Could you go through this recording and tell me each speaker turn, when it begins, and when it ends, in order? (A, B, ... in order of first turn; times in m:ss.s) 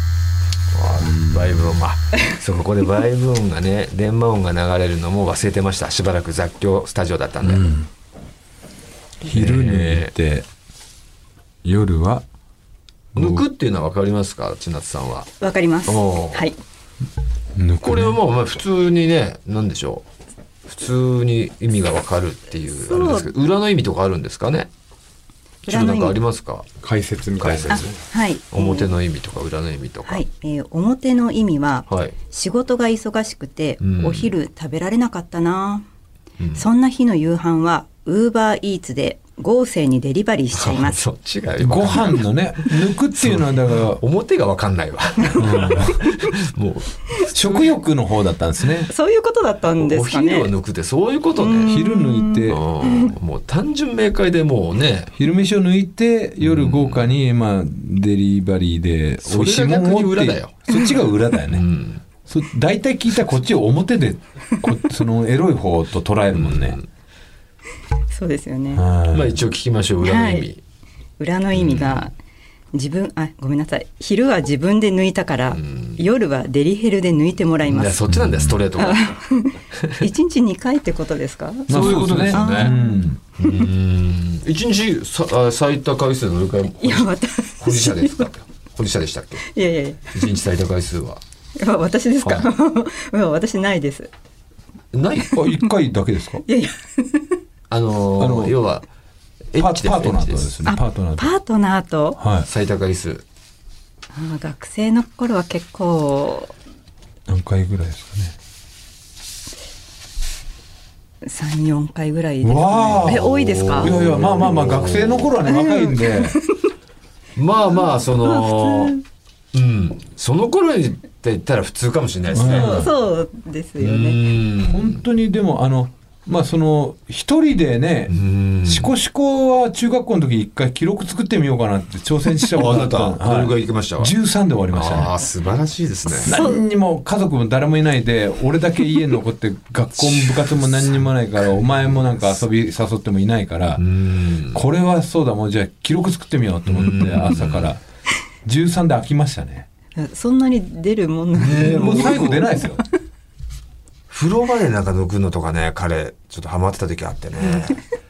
0:00.7-0:07.8 A
0:01.0-0:01.8 B
0:07.4-0:07.9 B
0:09.2-0:10.4 B
0:09.2-0:10.1 A
0:11.6-0:12.2 B
0:13.1-0:13.4 B
0:13.1-0:15.3 A
0:15.4-0:16.6 C
0:15.9-0:16.4 A
0:17.5-0:18.2 B
0:17.8-0:20.0 A
0:20.7-0:24.7 A
0:22.7-0:23.3 C
0:25.6-0:26.7 A
0:25.7-0:26.2 C
0:26.8-0:28.0 B
0:27.4-0:27.9 A
0:27.7-0:28.9 C
0:28.5-0:30.2 A
0:30.1-0:35.8 C
0:31.9-0:32.1 A
0:33.8-0:34.3 A
0:36.5-0:41.0 C
0:40.5-0:47.7 A
0:41.6-0:44.0 B
0:45.4-0:46.0 B
0:47.3-0:48.9 B
0:48.9-0:50.5 C
0:49.8-0:51.7 A
0:51.4-0:53.1 C
0:51.6-0:52.6 B
0:52.5-0:55.1 A
0:55.1-1:01.6 B
0:56.4-0:57.1 A
0:59.2-1:00.6 A
1:00.7-1:01.0 C
1:01.5-1:02.0 A
1:02.2-1:06.8 B
1:06.3-1:06.9 A
1:08.1-1:08.8 C
1:08.7-1:09.4 B
1:09.1-1:10.6 A
1:10.0-1:10.5 C
1:11.2-1:12.1 C
1:11.5-1:12.1 A
1:12.7-1:18.0 C
1:15.5-1:16.0 A
1:17.7-1:19.1 A
1:18.1-1:18.6 B
1:18.8-1:23.7 C
1:21.7-1:22.8 A
1:21.7-1:23.2 B
1:23.4-1:29.5 A
1:26.8-1:28.3 C
1:29.4-1:30.3 C
1:30.1-1:31.2 A
1:31.6-1:34.1 C
1:32.2-1:32.5 A
1:34.9-1:35.4 A
1:35.3-1:35.7 C
1:35.3-1:36.4 B
1:36.4-1:37.4 C
1:37.7-1:38.9 A
1:38.2-1:38.5 B
1:39.5-1:40.5 A
1:39.6-1:41.3 B
1:40.6-1:42.2 C
1:42.2-1:42.5 B
1:42.4-1:43.2 A
1:44.1-1:46.5 C
1:47.3-1:48.3 B
1:51.2-1:54.0 C
1:52.4-1:56.4 B
1:53.1-1:55.3 A
1:55.4-1:56.7 C
1:57.4-1:59.0 A
1:58.2-1:59.0 C
1:59.5-2:02.8 A
2:02.3-2:02.9 B
2:02.3-2:04.2 C
2:03.8-2:05.0 A
2:04.6-2:08.1 B
2:08.1-2:08.9 A
2:08.6-2:15.1 B
2:12.5-2:14.1 A
2:14.7-2:16.4 A
2:16.1-2:16.6 C
2:16.2-2:23.8 B
2:20.0-2:21.1 A
2:23.8-2:24.6 A
2:24.5-2:27.8 B
2:26.7-2:27.7 A
2:28.4-2:29.7 B
2:30.0-2:32.8 C
2:31.4-2:32.4 A
2:31.6-2:32.8 B
2:34.1-2:37.8 A